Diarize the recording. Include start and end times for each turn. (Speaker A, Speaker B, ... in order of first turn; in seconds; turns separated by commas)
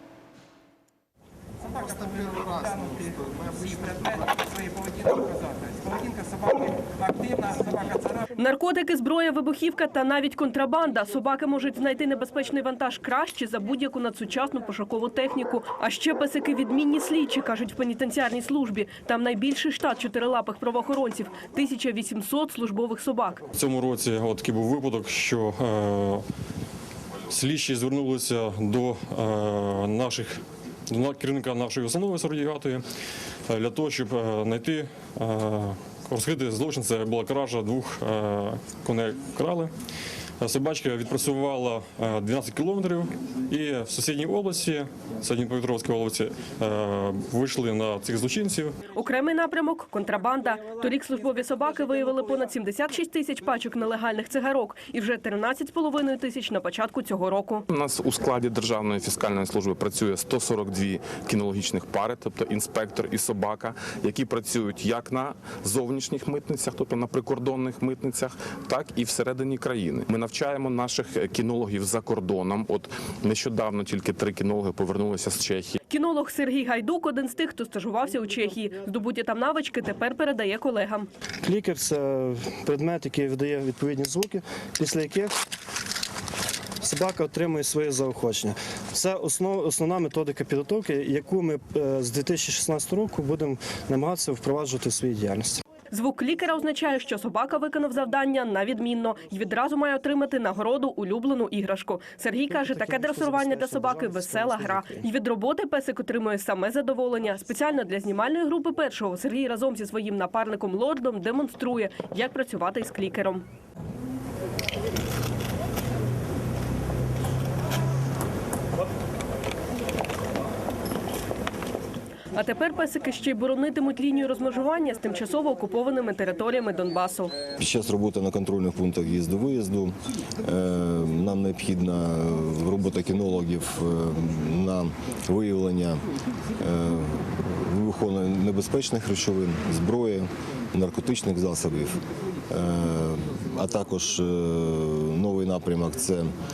Speaker A: 1.7-2.9, Speaker A: 4.3-5.3, Speaker A: 5.9-6.8, Speaker B: 8.3-23.4, Speaker C: 23.5-26.2, Speaker C: 27.3-32.8, Speaker C: 33.5-39.7, Speaker C: 40.4-48.8, Speaker B: 48.9-57.6, Speaker D: 57.7-75.8, Speaker B: 75.9-81.1, Speaker E: 81.4-85.3, Speaker E: 86.8-95.6, Speaker B: 95.9-113.4, Speaker E: 102.5-105.1, Speaker B: 122.3-127.3, Speaker F: 127.6-136.0, Speaker F: 136.6-142.0, Speaker F: 142.5-146.3